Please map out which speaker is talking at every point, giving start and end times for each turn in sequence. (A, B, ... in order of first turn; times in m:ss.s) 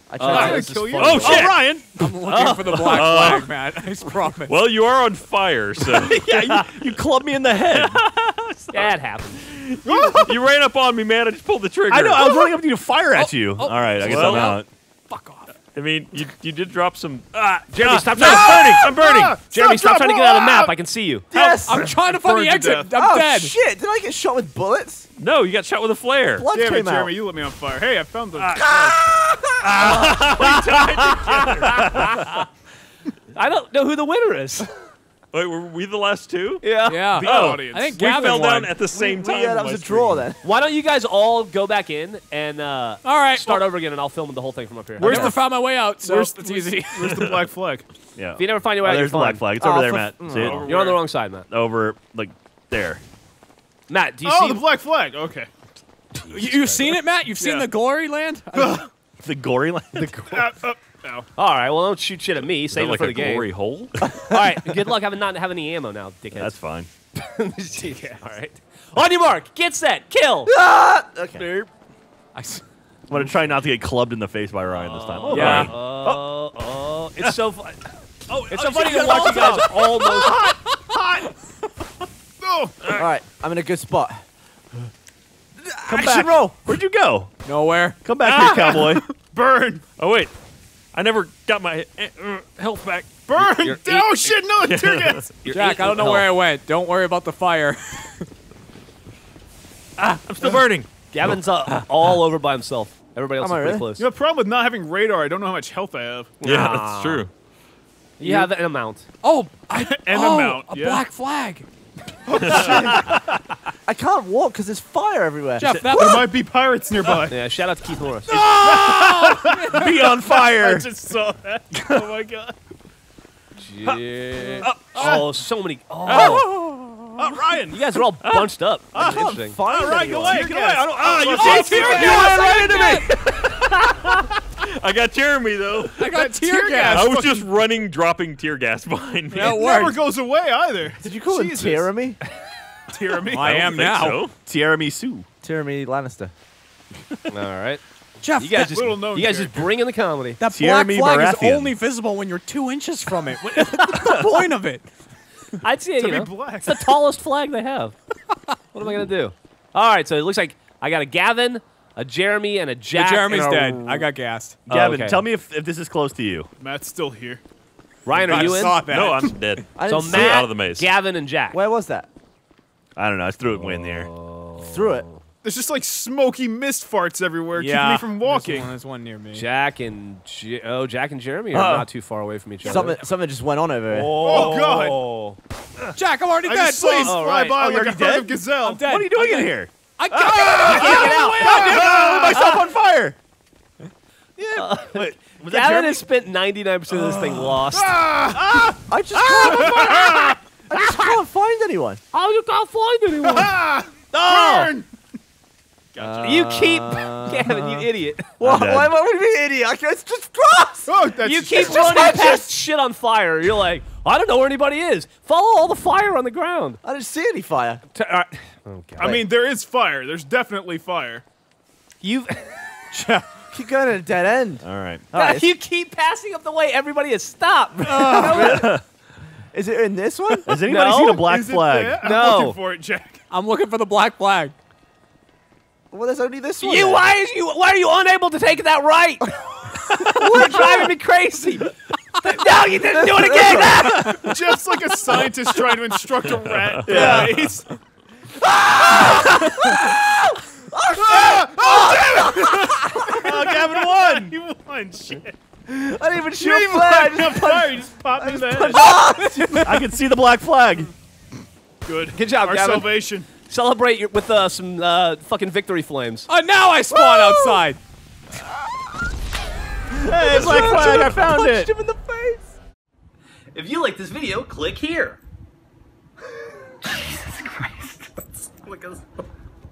0:00.1-0:01.0 A
0:00.2-0:01.6 B
0:00.3-0:01.9 C
0:00.9-0:01.7 D
0:01.9-0:04.6 E
0:02.2-0:03.1 B
0:02.8-0:03.7 D
0:04.4-0:12.4 D
0:05.9-0:08.0 F
0:08.7-0:09.4 B
0:09.8-0:10.3 C
0:11.9-0:14.7 F
0:13.1-0:15.5 E
0:14.0-0:14.6 D
0:15.7-0:19.4 D
0:17.7-0:18.9 B
0:18.3-0:20.8 C
0:19.5-0:21.3 B
0:21.3-0:21.9 A
0:21.4-0:23.5 E
0:22.1-0:22.8 C
0:22.9-0:25.1 A
0:25.2-0:26.5 D
0:26.3-0:27.1 A
0:26.5-0:29.0 C
0:28.3-0:29.0 D
0:28.6-0:29.5 A
0:29.6-0:32.4 D
0:29.8-0:32.2 B
0:33.3-0:34.7 B
0:35.3-0:40.3 D
0:36.6-0:37.5 B
0:36.8-0:38.8 E
0:37.2-0:37.9 C
0:38.9-0:40.4 A
0:40.4-0:45.4 B
0:43.0-0:43.6 E
0:45.0-0:47.2 E
0:45.0-0:45.4 C
0:46.0-0:47.8 C
0:47.0-0:47.3 D
0:48.2-0:50.7 F
0:48.4-0:49.4 B
0:49.6-0:50.6 A
0:50.4-0:50.6 D
0:50.6-0:51.5 B
0:50.7-0:51.0 C
0:51.4-0:53.0 F
0:53.9-0:54.6 B
0:54.2-0:55.5 C
0:56.2-0:58.8 E
0:56.3-0:57.0 B
0:57.4-0:57.7 C
0:59.2-1:00.5 F
0:59.9-1:00.4 B
1:00.3-1:01.3 C
1:01.4-1:03.5 B
1:02.7-1:04.0 D
1:04.1-1:06.6 B
1:06.3-1:06.9 F
1:07.1-1:10.5 B
1:10.4-1:11.5 A
1:11.4-1:11.7 F
1:12.3-1:12.6 E
1:13.1-1:16.2 F
1:14.7-1:17.8 B
1:15.3-1:15.8 D
1:15.3-1:15.7 E
1:18.3-1:19.6 D
1:18.4-1:19.4 F
1:18.5-1:20.5 B
1:19.5-1:20.8 E
1:22.4-1:22.7 C
1:22.9-1:24.2 A
1:25.6-1:26.6 A
1:25.9-1:27.3 F
1:27.4-1:28.0 E
1:28.0-1:29.1 F
1:28.2-1:28.9 D
1:29.1-1:29.8 C
1:30.0-1:30.3 D
1:30.9-1:33.4 D
1:33.3-1:35.2 C
1:33.4-1:34.4 B
1:34.6-1:35.3 D
1:35.4-1:36.4 B
1:35.4-1:38.3 E
1:40.0-1:42.1 D
1:41.1-1:44.1 B
1:43.4-1:43.9 A
1:44.0-1:46.3 C
1:46.4-1:47.3 B
1:46.4-1:47.3 D
1:48.2-1:49.1 B
1:49.2-1:51.6 E
1:50.0-1:51.0 C
1:52.3-1:52.9 E
1:52.4-1:52.9 D
1:52.4-1:53.1 C
1:53.9-1:56.0 A
1:55.6-1:56.4 E
1:55.9-1:57.4 C
1:57.2-1:58.4 B
1:58.3-2:00.0 E
1:58.6-2:02.6 C
1:58.7-2:00.9 F
2:03.6-2:06.5 B
2:04.6-2:05.0 F
2:06.1-2:06.6 D
2:06.1-2:07.3 E
2:07.2-2:07.8 F
2:07.7-2:09.6 B
2:08.2-2:08.5 D
2:08.9-2:10.5 A
2:09.0-2:11.9 C
2:10.1-2:12.9 F
2:10.6-2:16.1 D
2:11.3-2:13.1 E
2:16.0-2:17.2 E
2:16.1-2:17.5 C
2:16.8-2:19.7 D
2:19.3-2:20.1 E
2:19.4-2:21.9 C
2:21.0-2:22.2 A
2:22.9-2:23.4 C
2:23.2-2:24.3 E
2:23.3-2:24.3 D
2:24.4-2:25.2 F
2:25.4-2:26.3 A
2:27.3-2:27.8 B
2:28.2-2:28.8 E
2:28.3-2:30.4 B
2:28.7-2:29.7 C
2:30.4-2:34.8 E
2:30.5-2:31.8 F
2:33.8-2:34.4 B
2:35.6-2:37.9 B
2:36.0-2:36.8 C
2:38.7-2:44.1 B
2:42.9-2:44.6 E
2:44.7-2:46.5 F
2:44.7-2:45.3 B
2:46.6-2:47.4 C
2:48.1-2:48.8 B
2:48.1-2:49.6 E
2:48.8-2:50.9 D
2:49.8-2:50.5 A
2:49.9-2:51.6 B
2:51.5-2:52.1 A
2:53.0-2:54.1 F
2:53.5-2:55.2 B
2:54.6-2:55.0 A
2:55.4-2:58.7 C
2:57.5-2:59.4 E
2:59.3-3:03.0 B
3:01.5-3:01.9 F
3:02.6-3:04.4 A
3:03.9-3:05.4 B
3:04.2-3:04.7 F
3:04.2-3:04.9 C
3:05.9-3:07.2 E
3:06.4-3:08.8 C
3:07.0-3:07.7 B
3:07.5-3:09.7 F
3:08.6-3:12.6 E
3:10.1-3:11.8 B
3:10.4-3:13.2 F
3:11.8-3:12.2 C
3:14.4-3:16.0 F
3:14.6-3:18.0 B
3:17.6-3:18.8 C
3:18.9-3:22.0 A
3:19.5-3:20.0 B
3:19.5-3:20.3 C
3:20.7-3:21.2 B
3:22.1-3:23.6 B
3:23.2-3:24.9 C
3:24.1-3:24.7 F
3:25.9-3:26.3 C
3:26.0-3:27.9 A
3:26.2-3:28.3 B
3:28.4-3:32.5 A
3:28.4-3:29.0 F
3:30.9-3:31.9 C
3:31.2-3:36.8 B
3:36.8-3:37.8 A
3:37.9-3:39.2 B
3:39.0-3:41.2 C
3:42.0-3:42.6 B
3:42.9-3:45.5 A
3:44.6-3:45.0 F
3:45.1-3:48.7 B
3:47.9-3:48.5 E
3:47.9-3:48.8 A
3:48.5-3:48.8 F
3:49.5-3:50.5 A
3:50.4-3:52.1 F
3:50.5-3:51.3 B
3:51.2-3:53.2 C
3:52.0-3:52.6 B
3:53.3-3:54.6 E
3:55.9-3:57.1 A
3:56.6-4:04.3 B
4:00.0-4:00.9 A
4:02.9-4:04.3 A
4:04.1-4:07.6 C
4:06.2-4:07.6 D
4:06.9-4:07.3 B
4:06.9-4:07.4 A
4:08.4-4:13.3 A
4:11.0-4:15.3 C
4:12.7-4:14.3 F
4:15.6-4:19.7 A
4:16.4-4:18.8 C
4:18.9-4:19.8 E
4:19.6-4:20.9 F
4:21.8-4:23.3 C
4:22.1-4:26.3 B
4:26.3-4:27.8 E
4:26.9-4:27.7 A
4:29.9-4:32.5 A
4:30.1-4:31.7 F
4:30.4-4:31.0 D
4:33.5-4:35.2 B
4:38.6-4:39.0 B